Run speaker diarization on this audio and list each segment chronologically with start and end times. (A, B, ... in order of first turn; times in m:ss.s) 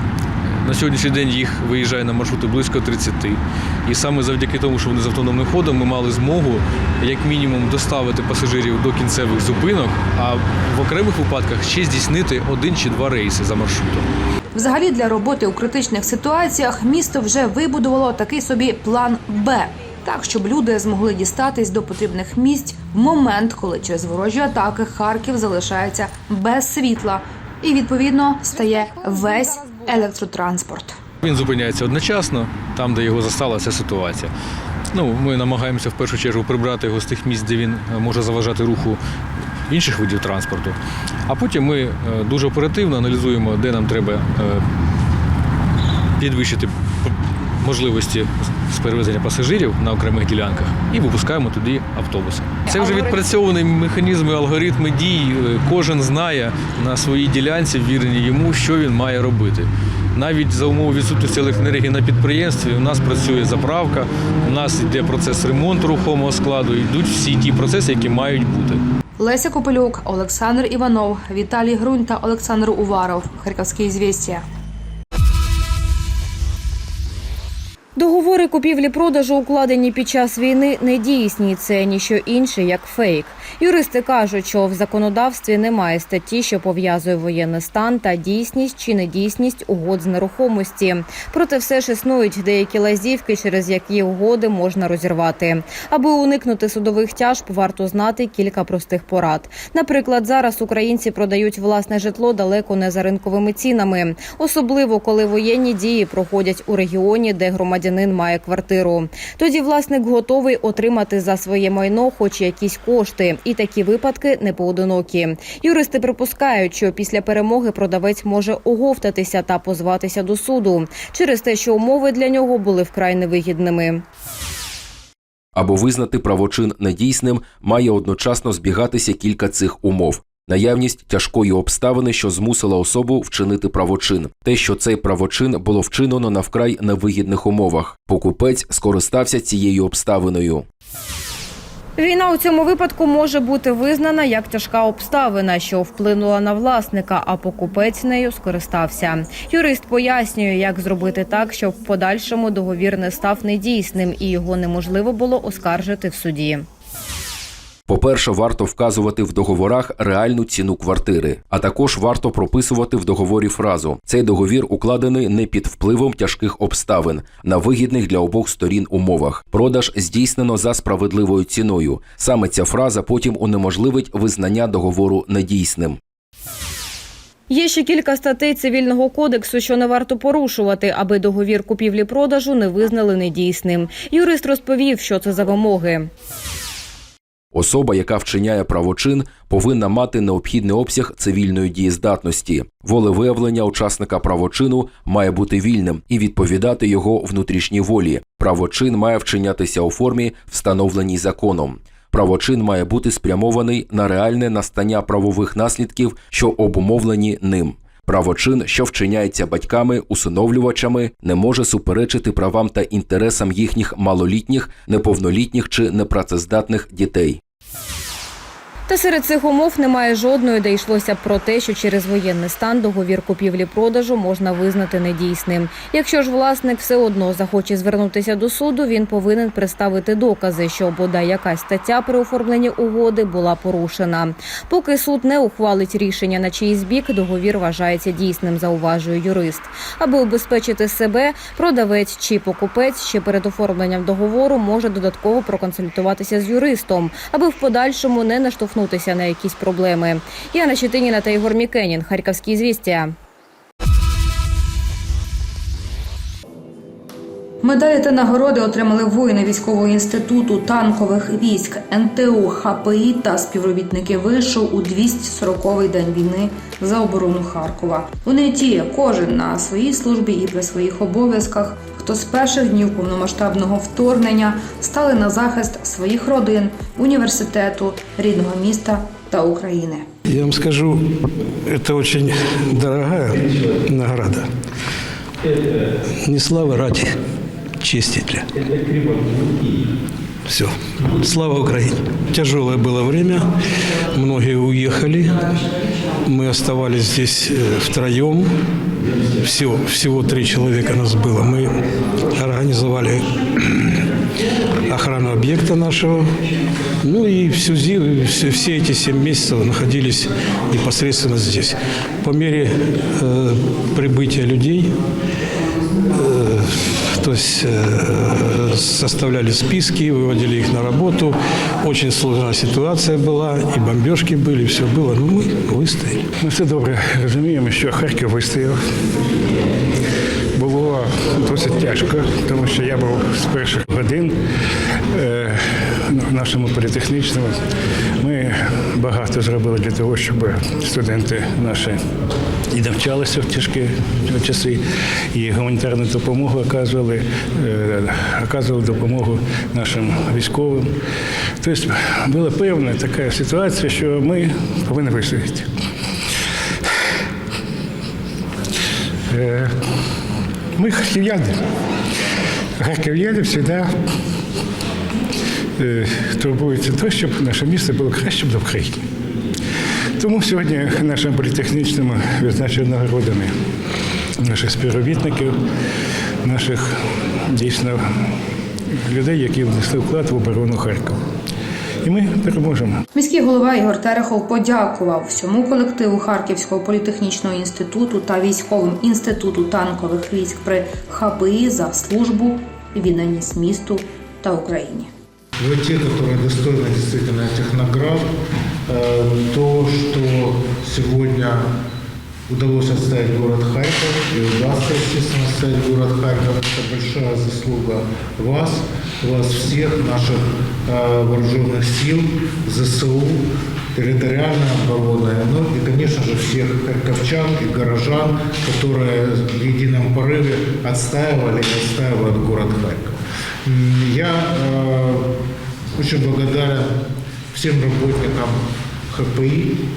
0:00.6-0:14.1 A
0:14.6-0:31.0 B
0:31.2-0:34.3 A
0:34.9-0:39.0 A
0:39.7-0:40.8 A
0:41.3-0:44.6 A
0:46.2-1:08.8 A
0:52.7-0:53.3 C
1:09.2-1:14.4 B
1:18.0-2:04.0 C
2:05.6-2:20.6 D
2:22.0-2:36.7 C
2:37.9-2:56.0 D
2:57.5-3:06.1 C
3:07.5-3:37.4 D
3:38.9-4:13.2 C
4:17.6-4:40.1 B
4:40.3-4:41.0 E
4:41.7-4:43.3 E
4:43.9-4:44.4 E
4:46.2-4:47.1 E
4:47.8-4:48.4 E
4:50.5-4:53.4 E
4:54.1-4:55.6 E
4:56.3-4:58.5 E
4:59.4-5:01.8 E
5:02.4-5:03.2 E
5:04.9-5:06.2 E
5:07.0-5:14.9 E
5:16.2-5:16.7 E
5:17.2-5:26.2 E
5:26.4-5:28.8 F
5:30.6-5:34.4 F
5:35.1-5:37.6 F
5:38.2-5:42.0 F
5:42.7-5:50.9 F
5:51.6-5:55.7 F
5:59.3-5:59.7 F
6:00.8-6:01.6 F
6:02.8-6:03.9 F
6:05.8-6:09.0 F
6:10.2-6:13.5 F
6:14.4-6:15.6 F
6:16.4-6:16.9 F
6:17.5-6:18.0 F
6:19.1-6:21.2 F
6:22.0-6:23.0 F
6:23.2-6:35.1 B
6:35.6-6:38.3 G
6:38.9-6:41.6 G
6:42.5-6:53.4 G
6:54.0-7:05.3 G
7:06.0-7:06.9 G
7:07.5-7:08.6 G
7:09.1-7:09.8 G